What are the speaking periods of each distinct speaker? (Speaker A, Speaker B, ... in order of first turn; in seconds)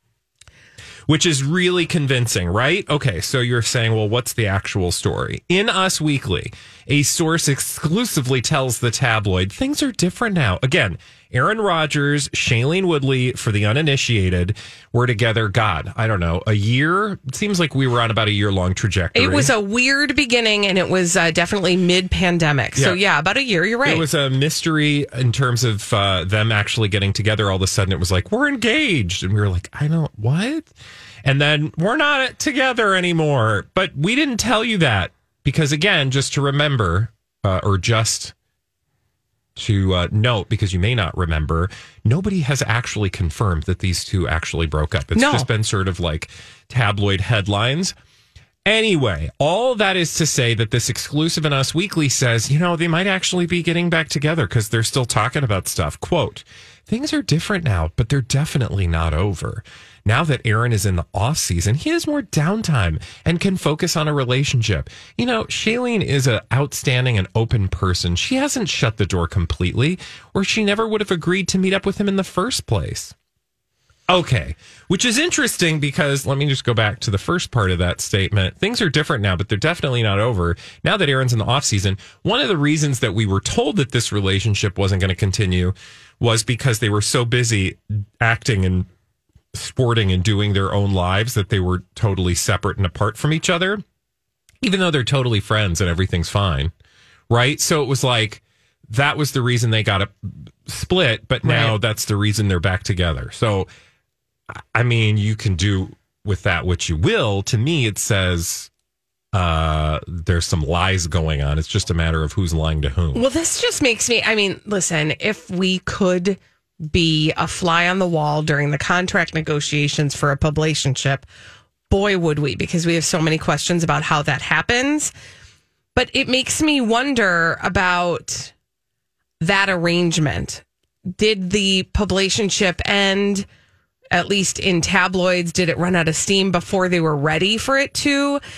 Speaker A: 1.1-19.6, 23.8-30.7, 31.2-38.3, 39.6-48.0, 48.6-73.2, 74.1-88.9, 89.5-93.8, 94.6-96.7, 97.3-103.7, 104.5-108.7, 109.3-113.3
Speaker B: 19.1-24.1, 45.1-45.5, 101.4-101.8, 113.2-121.2, 121.9-125.1, 126.0-128.5, 129.4-130.6, 131.2-133.5, 134.1-138.4